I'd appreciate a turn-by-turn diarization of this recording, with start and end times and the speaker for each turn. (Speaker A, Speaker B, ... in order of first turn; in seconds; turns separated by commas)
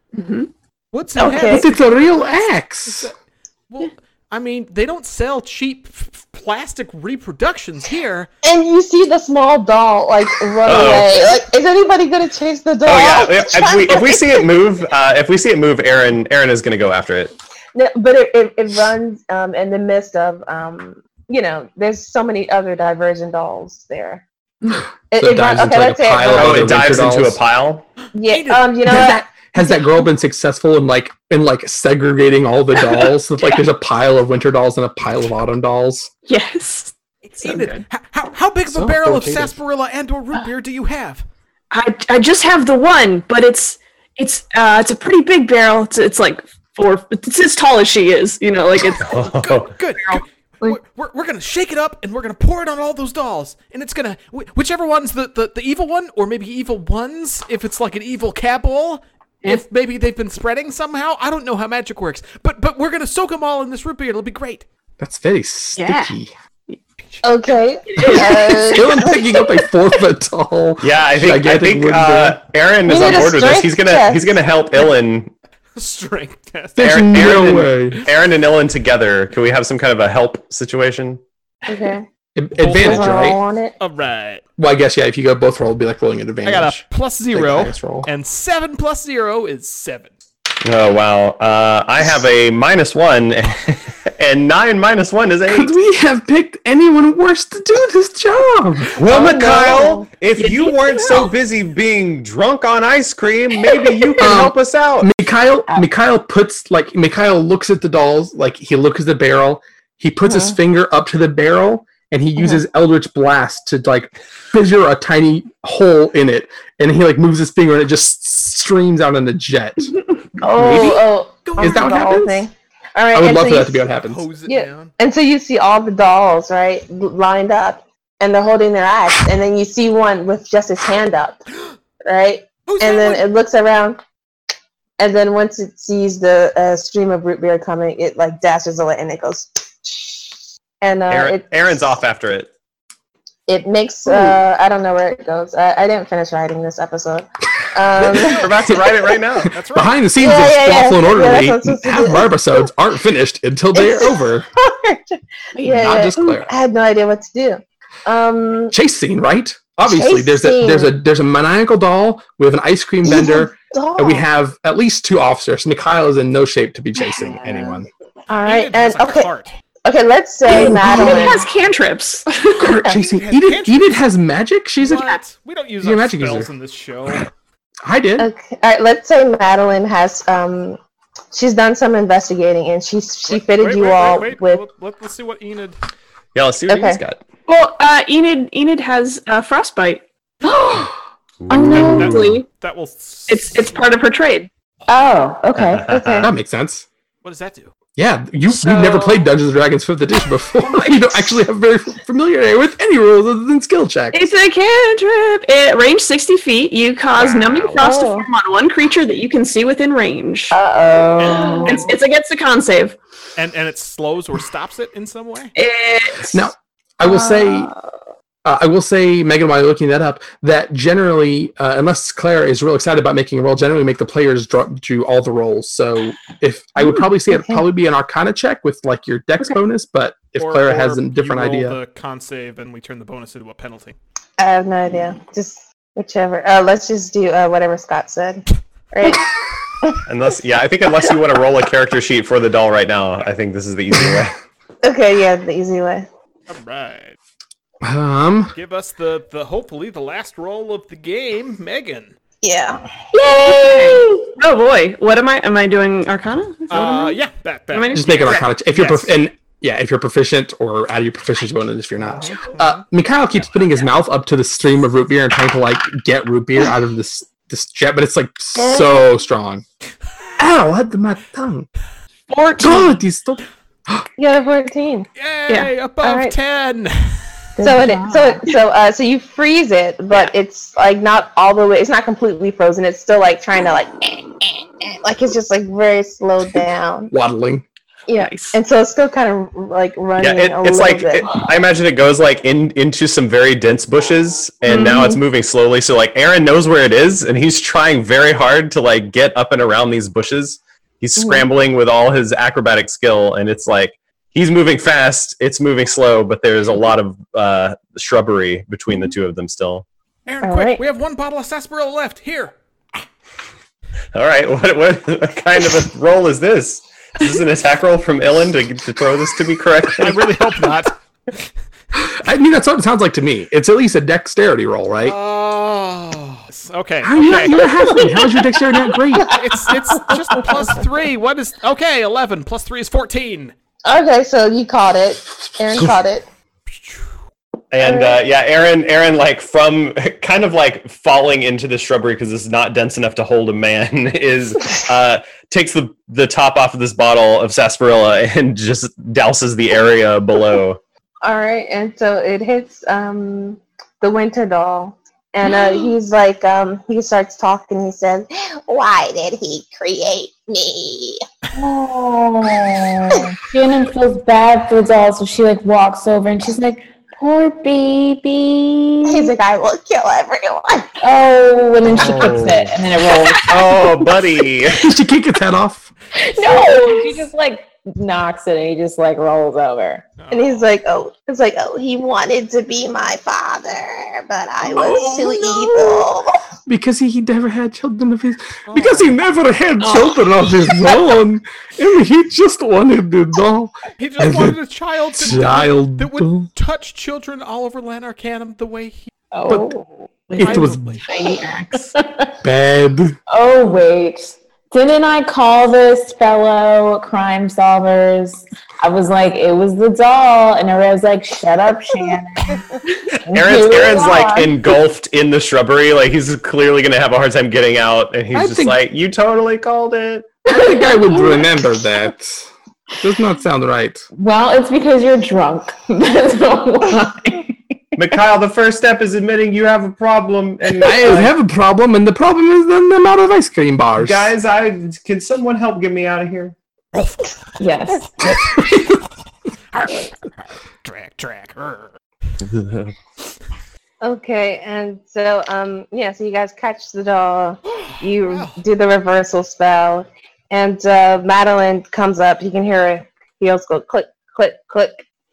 Speaker A: 0.1-0.5, Speaker B: 0.9-3.1, Speaker C: 1.2-1.6, Speaker D: 1.5-3.1, Speaker B: 3.7-8.3, Speaker C: 8.4-14.4, Speaker E: 10.7-11.3, Speaker E: 12.9-17.4, Speaker C: 17.8-24.2, Speaker C: 25.1-26.8, Speaker D: 25.2-27.4, Speaker E: 26.3-27.9, Speaker C: 28.1-29.4, Speaker B: 28.3-28.7, Speaker D: 28.9-36.1, Speaker A: 32.8-33.6, Speaker A: 36.3-37.8, Speaker B: 37.3-41.2, Speaker D: 38.7-39.6, Speaker A: 41.7-49.3, Speaker E: 49.0-49.7, Speaker B: 49.2-64.7, Speaker A: 50.0-50.8, Speaker D: 65.0-66.3, Speaker A: 65.8-66.2, Speaker C: 67.2-69.2, Speaker A: 67.9-69.4, Speaker D: 68.7-72.4, Speaker E: 70.8-75.3, Speaker C: 72.9-74.4, Speaker B: 75.8-77.4, Speaker D: 76.8-78.0, Speaker E: 76.8-81.2, Speaker C: 81.7-82.1, Speaker D: 82.3-83.4, Speaker B: 82.6-84.4, Speaker C: 82.7-83.8, Speaker D: 84.6-88.1, Speaker B: 86.5-90.1, Speaker E: 90.6-95.7, Speaker D: 95.5-99.0, Speaker E: 99.0-105.1, Speaker C: 99.1-100.1, Speaker A: 100.4-101.3, Speaker D: 104.2-120.0, Speaker C: 110.3-110.6, Speaker C: 120.4-123.9, Speaker D: 120.6-121.0, Speaker B: 121.5-122.0, Speaker D: 121.6-122.5, Speaker D: 123.1-124.2, Speaker B: 124.0-124.9, Speaker C: 124.5-131.4, Speaker C: 132.1-134.0, Speaker B: 132.7-133.3, Speaker C: 135.0-142.0, Speaker E: 141.1-142.5, Speaker C: 143.5-148.5, Speaker E: 148.1-149.6, Speaker B: 149.5-150.1, Speaker D: 149.6-154.5, Speaker C: 150.2-152.6, Speaker C: 153.8-158.7, Speaker D: 155.6-156.5, Speaker D: 158.7-167.9, Speaker C: 159.9-160.9, Speaker C: 163.1-164.3, Speaker C: 168.3-169.3, Speaker B: 168.4-169.5, Speaker C: 169.8-171.4, Speaker A: 170.5-172.8, Speaker D: 172.6-175.1, Speaker B: 172.9-173.9, Speaker B: 174.8-177.3, Speaker D: 175.8-176.5, Speaker D: 177.8-178.3, Speaker C: 178.2-180.8, Speaker C: 181.3-184.7, Speaker B: 183.3-185.8, Speaker E: 186.3-187.2, Speaker C: 186.7-187.0, Speaker A: 187.5-190.8, Speaker F: 190.4-190.9, Speaker E: 191.4-192.2, Speaker F: 191.5-192.2, Speaker A: 191.5-192.5, Speaker B: 191.8-193.9, Speaker A: 193.3-194.5, Speaker F: 194.9-195.9, Speaker E: 195.6-196.3, Speaker C: 195.9-196.3, Speaker D: 196.2-196.9, Speaker B: 197.2-197.7, Speaker D: 198.0-204.3, Speaker A: 198.5-199.3, Speaker A: 200.7-201.1, Speaker A: 204.1-210.6, Speaker B: 207.2-207.8, Speaker E: 207.3-207.6, Speaker C: 207.8-208.3, Speaker C: 210.5-211.8, Speaker F: 210.7-211.9, Speaker B: 211.2-211.8, Speaker A: 211.5-213.0, Speaker B: 213.4-215.5, Speaker A: 215.6-216.4, Speaker D: 216.3-217.7, Speaker F: 217.1-217.7, Speaker D: 218.4-231.8, Speaker C: 227.3-227.6, Speaker B: 230.4-234.0, Speaker C: 234.4-239.3, Speaker E: 240.1-244.3, Speaker C: 244.8-246.1, Speaker B: 246.5-247.2, Speaker D: 247.8-248.6, Speaker B: 248.5-252.2, Speaker C: 252.4-252.9, Speaker A: 253.1-257.2, Speaker F: 253.4-254.0, Speaker B: 256.7-259.1, Speaker A: 257.7-258.5, Speaker D: 257.9-269.6, Speaker B: 262.2-262.8, Speaker D: 270.4-271.7, Speaker A: 272.3-273.0, Speaker D: 272.6-274.1, Speaker C: 274.2-275.1, Speaker B: 275.2-277.2, Speaker C: 276.0-276.4, Speaker F: 277.6-278.4, Speaker C: 277.6-287.1, Speaker D: 287.1-287.6, Speaker C: 288.1-291.3, Speaker A: 288.1-288.6, Speaker E: 290.2-309.9, Speaker A: 294.7-295.2, Speaker C: 301.2-301.5, Speaker B: 310.3-312.6, Speaker C: 310.4-310.8, Speaker E: 314.1-320.3, Speaker B: 320.0-321.0, Speaker D: 321.9-325.2, Speaker B: 325.1-328.1, Speaker D: 327.0-329.4, Speaker B: 329.3-333.5, Speaker C: 333.9-336.3, Speaker B: 336.8-337.1, Speaker E: 337.7-350.8, Speaker C: 337.8-338.2, Speaker C: 351.2-361.2, Speaker F: 361.6-369.3, Speaker C: 369.1-370.9, Speaker F: 371.0-373.7, Speaker E: 371.8-372.8, Speaker A: 373.2-373.4, Speaker E: 373.5-374.8, Speaker D: 374.7-375.9, Speaker F: 376.1-380.0, Speaker A: 376.5-377.2, Speaker B: 380.2-380.7, Speaker C: 380.3-386.3, Speaker D: 386.7-394.6, Speaker B: 388.7-389.2, Speaker B: 394.0-399.1, Speaker D: 395.2-396.5, Speaker F: 399.3-402.3, Speaker B: 400.3-401.1, Speaker D: 400.4-401.0, Speaker A: 401.3-401.8, Speaker D: 402.4-403.2, Speaker F: 403.3-414.6, Speaker E: 413.3-420.4, Speaker D: 418.3-418.8, Speaker D: 420.5-422.5, Speaker F: 420.5-421.4, Speaker D: 423.0-424.1, Speaker F: 424.1-428.1, Speaker E: 428.0-431.3, Speaker D: 430.8-434.3, Speaker E: 434.0-436.6, Speaker B: 436.9-437.4, Speaker F: 437.6-438.2, Speaker D: 438.2-438.9, Speaker B: 439.7-441.9, Speaker E: 442.4-442.9, Speaker C: 444.0-455.1, Speaker B: 447.7-448.6